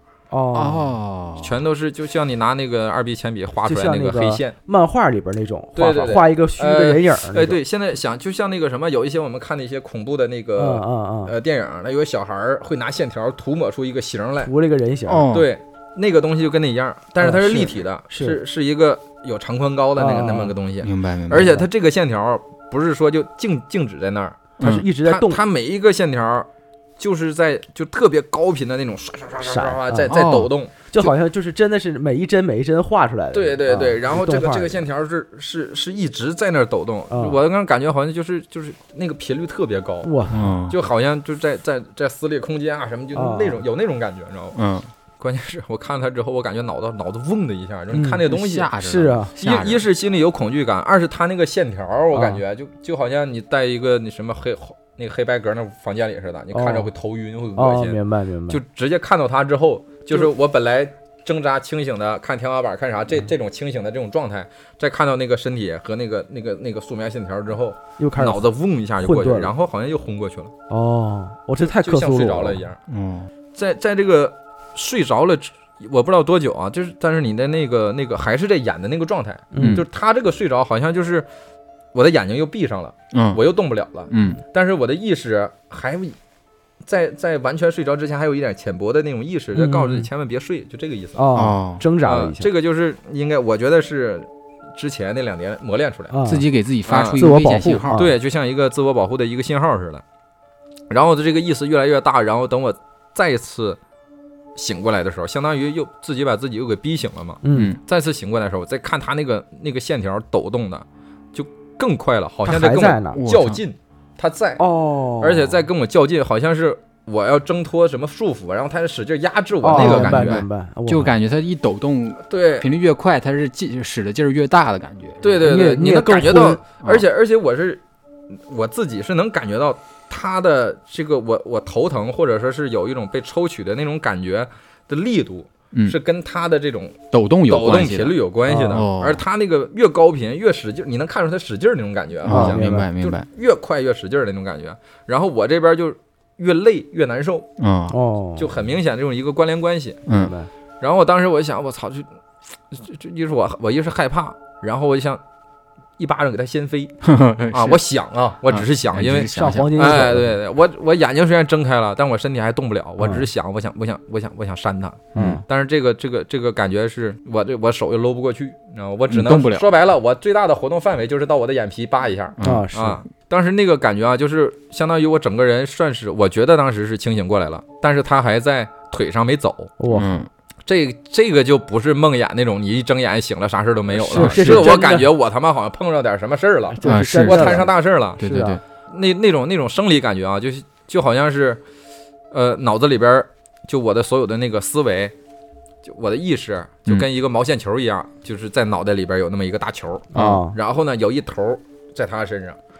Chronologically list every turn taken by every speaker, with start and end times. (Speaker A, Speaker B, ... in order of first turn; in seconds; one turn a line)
Speaker A: 0.3-0.9
Speaker B: 0.5-1.6
Speaker C: 1.4-4.5
Speaker A: 3.6-7.6
Speaker C: 5.8-14.5
Speaker A: 10.6-11.3
Speaker A: 14.4-15.3
Speaker B: 15.1-15.5
Speaker C: 15.3-24.4
Speaker A: 17.2-18.4
Speaker A: 19.9-20.5
Speaker B: 20.8-21.6
Speaker A: 21.3-21.7
Speaker B: 24.6-24.9
Speaker A: 24.6-25.4
Speaker C: 25.0-26.5
Speaker C: 27.0-31.1
Speaker A: 29.4-30.2
Speaker B: 30.1-30.5
Speaker A: 30.9-34.8
Speaker C: 33.3-40.1
Speaker A: 37.1-37.4
Speaker A: 40.0-40.5
Speaker B: 40.3-40.8
Speaker C: 40.7-44.6
Speaker A: 43.1-43.6
Speaker B: 44.5-44.9
Speaker C: 45.2-48.7
Speaker A: 47.9-48.2
Speaker B: 48.2-49.8
Speaker A: 48.8-49.3
Speaker C: 49.4-70.5
Speaker A: 52.1-52.4
Speaker A: 56.5-56.9
Speaker A: 57.5-58.6
Speaker A: 68.0-69.5
Speaker A: 70.7-72.6
Speaker C: 71.6-72.8
Speaker B: 72.9-73.3
Speaker C: 73.5-81.3
Speaker A: 79.5-79.8
Speaker B: 79.6-79.8
Speaker C: 81.9-86.2
Speaker B: 83.1-83.4
Speaker B: 84.1-84.4
Speaker C: 86.8-91.2
Speaker A: 89.5-90.1
Speaker A: 91.1-92.5
Speaker B: 91.3-91.8
Speaker C: 92.0-96.2
Speaker A: 96.1-96.5
Speaker B: 96.2-98.0
Speaker C: 96.9-97.2
Speaker A: 97.1-98.1
Speaker C: 97.9-100.0
Speaker C: 100.9-103.8
Speaker C: 104.5-114.6
Speaker A: 107.4-107.8
Speaker B: 107.5-107.8
Speaker A: 112.4-113.2
Speaker B: 113.1-113.6
Speaker A: 114.6-115.6
Speaker C: 115.2-120.4
Speaker A: 119.6-121.1
Speaker B: 119.7-125.4
Speaker C: 122.3-122.7
Speaker C: 125.2-147.5
Speaker A: 125.4-126.6
Speaker B: 135.7-136.0
Speaker B: 137.1-139.2
Speaker A: 138.5-138.8
Speaker B: 142.2-143.2
Speaker A: 142.3-142.9
Speaker B: 147.6-148.0
Speaker A: 147.9-148.5
Speaker C: 148.4-150.0
Speaker B: 150.1-150.3
Speaker A: 150.1-150.5
Speaker C: 150.8-152.1
Speaker C: 152.7-155.2
Speaker C: 156.0-157.0
Speaker B: 157.0-157.8
Speaker C: 157.5-179.7
Speaker B: 158.5-160.1
Speaker A: 159.3-160.4
Speaker A: 163.0-163.3
Speaker B: 165.1-165.4
Speaker A: 165.1-165.4
Speaker B: 169.1-169.7
Speaker B: 172.4-172.7
Speaker A: 172.4-173.0
Speaker A: 179.8-180.1
Speaker B: 179.9-180.3
Speaker C: 180.7-188.2
Speaker A: 183.9-185.1
Speaker B: 184.1-184.7
Speaker A: 186.7-188.6
Speaker B: 186.8-188.6
Speaker C: 188.9-191.6
Speaker C: 192.3-195.1
Speaker C: 195.8-202.6
Speaker A: 200.1-200.6
Speaker B: 200.1-200.4